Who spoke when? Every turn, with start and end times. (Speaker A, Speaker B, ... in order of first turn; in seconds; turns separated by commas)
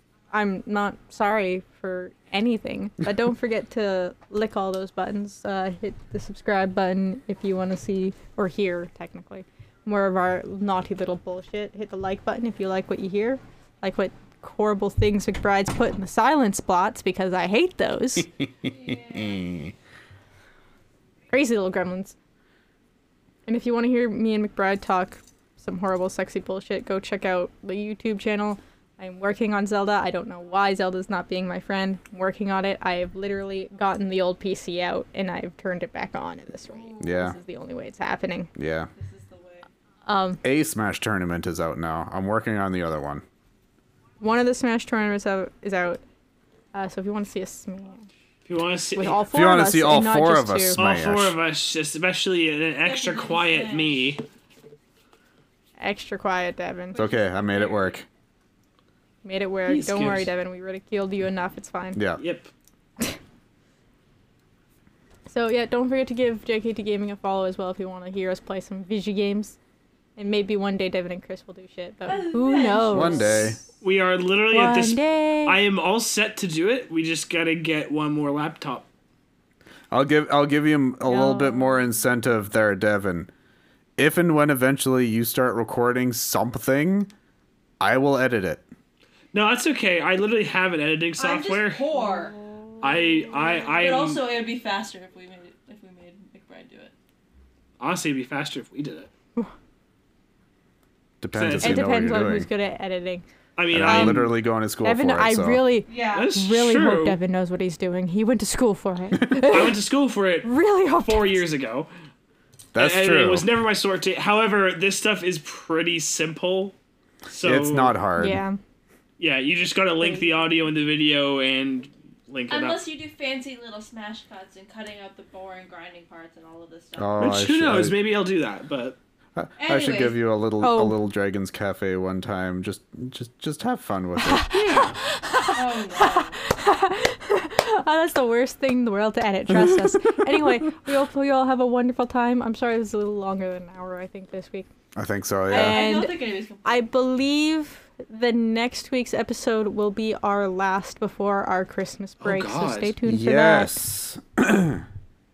Speaker A: 0.3-18.3, Speaker B: 18.6-19.6, Speaker A: 21.3-22.1, Speaker A: 23.5-38.5, Speaker B: 36.7-37.3, Speaker C: 37.0-37.4, Speaker C: 38.5-38.9, Speaker B: 38.9-39.6, Speaker A: 40.0-40.4, Speaker C: 40.4-43.2, Speaker A: 44.2-46.0, Speaker A: 46.7-48.1, Speaker D: 48.5-49.2, Speaker A: 48.9-50.8, Speaker C: 49.3-51.4, Speaker D: 50.7-54.2, Speaker B: 52.8-54.1, Speaker A: 55.8-57.0, Speaker B: 56.9-58.0, Speaker C: 57.0-58.0, Speaker A: 59.2-62.0, Speaker D: 59.6-60.3, Speaker C: 62.0-62.2, Speaker D: 62.2-62.5, Speaker A: 65.3-69.6, Speaker A: 70.2-73.6, Speaker B: 72.0-73.7, Speaker C: 72.9-73.6, Speaker D: 73.8-78.9, Speaker A: 74.5-75.6, Speaker C: 79.9-83.3, Speaker A: 81.0-81.9, Speaker C: 84.0-87.1, Speaker C: 87.8-88.6, Speaker D: 89.3-91.9, Speaker B: 91.2-92.4, Speaker A: 92.0-93.2, Speaker D: 92.8-94.2, Speaker B: 93.2-96.9, Speaker D: 97.8-99.1, Speaker C: 101.2-102.5, Speaker D: 101.3-101.9, Speaker A: 101.6-103.2, Speaker D: 103.5-104.3, Speaker C: 103.7-105.7, Speaker A: 103.8-104.3, Speaker A: 104.8-109.8, Speaker B: 105.9-106.3, Speaker D: 106.1-107.2, Speaker D: 109.4-111.9, Speaker A: 110.4-111.4, Speaker C: 112.7-113.5, Speaker D: 112.7-116.7, Speaker D: 117.3-118.0, Speaker C: 117.4-118.4, Speaker A: 118.2-118.6, Speaker D: 119.2-122.8, Speaker A: 120.0-120.4, Speaker B: 122.5-127.3, Speaker C: 127.0-127.9, Speaker D: 127.2-129.0, Speaker C: 129.3-134.5, Speaker B: 129.6-130.2, Speaker A: 130.6-131.0, Speaker A: 134.2-144.7, Speaker D: 134.6-134.9, Speaker B: 135.5-136.4, Speaker C: 144.9-145.8, Speaker B: 145.5-146.9, Speaker A: 145.5-153.9, Speaker D: 152.2-152.9, Speaker C: 153.0-154.8